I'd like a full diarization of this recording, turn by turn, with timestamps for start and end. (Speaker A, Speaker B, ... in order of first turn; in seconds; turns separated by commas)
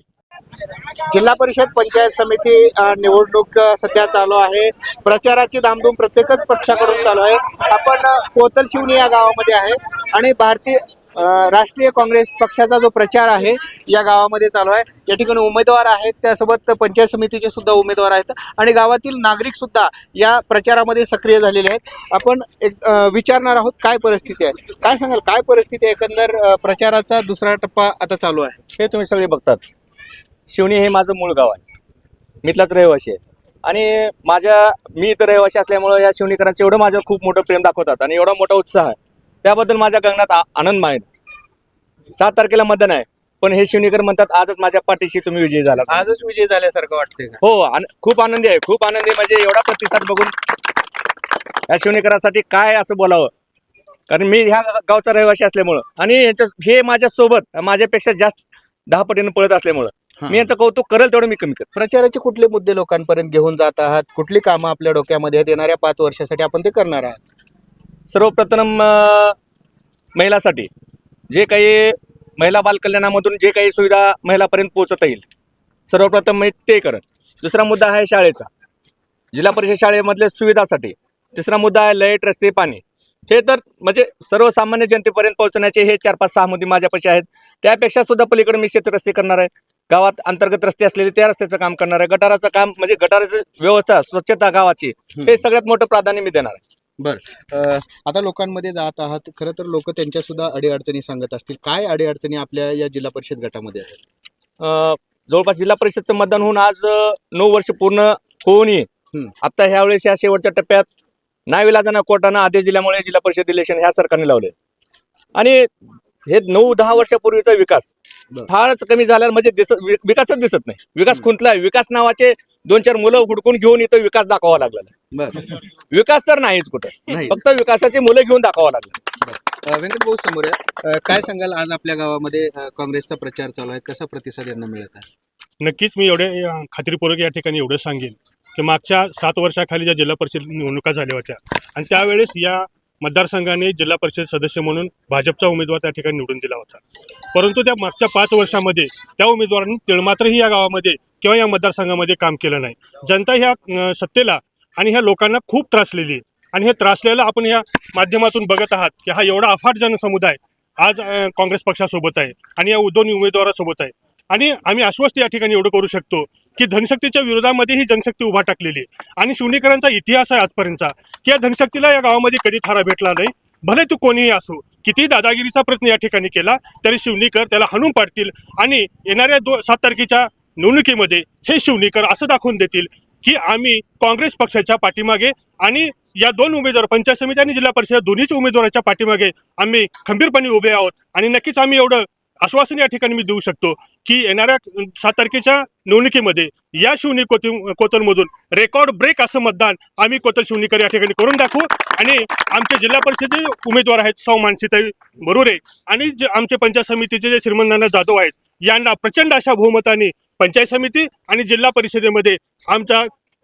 Speaker A: 1.0-28.6, Speaker B: 28.8-29.6, Speaker B: 30.5-31.6, Speaker B: 32.4-41.1, Speaker B: 42.1-46.0, Speaker A: 45.8-47.4, Speaker B: 47.4-50.3, Speaker B: 51.7-53.3, Speaker B: 54.1-61.7, Speaker A: 60.2-60.5, Speaker A: 61.7-67.2, Speaker B: 68.1-69.3, Speaker B: 70.2-70.7, Speaker B: 71.3-75.2, Speaker B: 75.9-78.5, Speaker B: 79.3-96.6, Speaker A: 95.1-95.4, Speaker A: 97.0-104.0, Speaker B: 104.6-108.9, Speaker B: 109.4-110.9, Speaker B: 111.5-114.5, Speaker B: 115.4-115.7, Speaker B: 116.2-117.9, Speaker B: 118.5-124.9, Speaker A: 125.1-125.5, Speaker B: 125.9-129.0, Speaker A: 127.1-127.4, Speaker A: 129.2-135.1, Speaker C: 135.6-146.8, Speaker C: 147.3-213.1